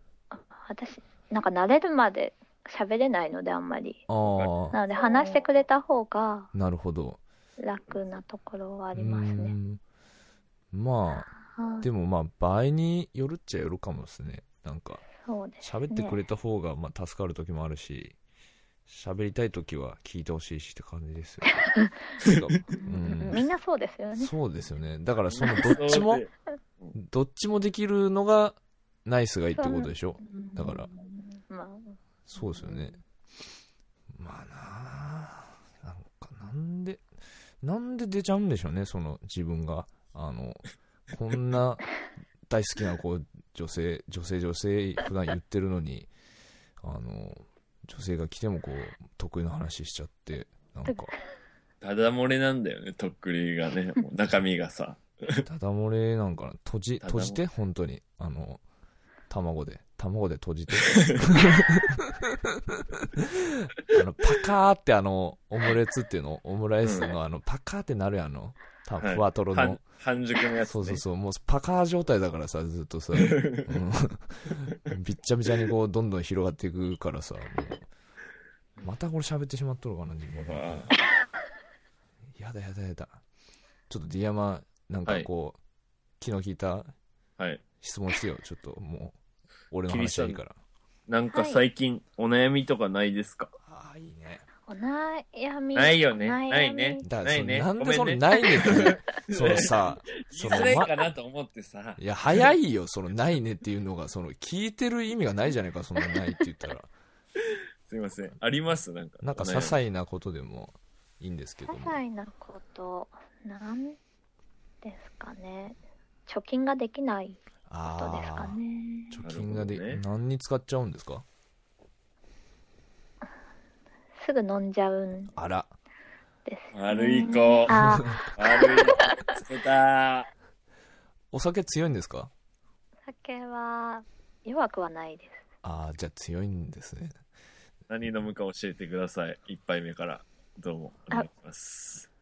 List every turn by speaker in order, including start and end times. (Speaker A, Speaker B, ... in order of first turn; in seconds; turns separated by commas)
Speaker A: 0.3-4.0, Speaker B: 4.1-4.8, Speaker A: 4.7-6.5, Speaker B: 6.5-7.2, Speaker A: 7.6-9.6, Speaker B: 8.9-9.8, Speaker B: 10.7-11.3, Speaker A: 11.4-11.9, Speaker B: 11.8-15.1, Speaker A: 15.2-16.2, Speaker B: 15.6-18.2, Speaker B: 18.9-21.6, Speaker A: 21.5-22.1, Speaker B: 22.2-23.4, Speaker C: 22.2-22.6, Speaker A: 22.8-24.3, Speaker B: 24.2-26.2, Speaker C: 25.4-26.9, Speaker B: 27.0-30.9, Speaker A: 29.6-33.0, Speaker B: 32.3-33.0, Speaker B: 34.1-37.0, Speaker B: 37.6-41.9, Speaker B: 42.5-46.1, Speaker B: 46.8-51.1, Speaker C: 51.8-55.5, Speaker B: 55.5-58.6, Speaker C: 57.0-57.4, Speaker B: 59.3-69.8, Speaker C: 60.8-61.3, Speaker C: 66.8-67.1, Speaker C: 69.0-71.0, Speaker B: 70.6-77.9, Speaker C: 73.1-73.7, Speaker B: 78.8-80.9, Speaker C: 80.4-81.0, Speaker B: 82.4-83.2, Speaker B: 83.9-85.6, Speaker B: 86.2-86.9, Speaker B: 87.8-89.2, Speaker B: 89.7-90.5, Speaker C: 89.9-90.4, Speaker C: 91.1-93.5, Speaker A: 91.3-91.6, Speaker B: 93.7-94.5, Speaker A: 94.7-97.1, Speaker C: 95.8-102.5, Speaker B: 97.0-100.9, Speaker A: 100.5-100.9, Speaker B: 102.0-106.9, Speaker C: 107.9-109.8, Speaker B: 109.2-112.0, Speaker A: 111.7-114.0, Speaker A: 114.8-117.4, Speaker B: 117.7-118.6, Speaker A: 118.0-119.2, Speaker B: 119.1-121.2, Speaker C: 119.2-120.0, Speaker A: 124.2-125.3, Speaker B: 125.3-125.7, Speaker A: 126.5-129.3, Speaker C: 126.7-130.3, Speaker B: 127.7-128.2, Speaker B: 131.3-132.3, Speaker A: 133.1-135.4, Speaker B: 135.6-137.2, Speaker C: 137.9-142.1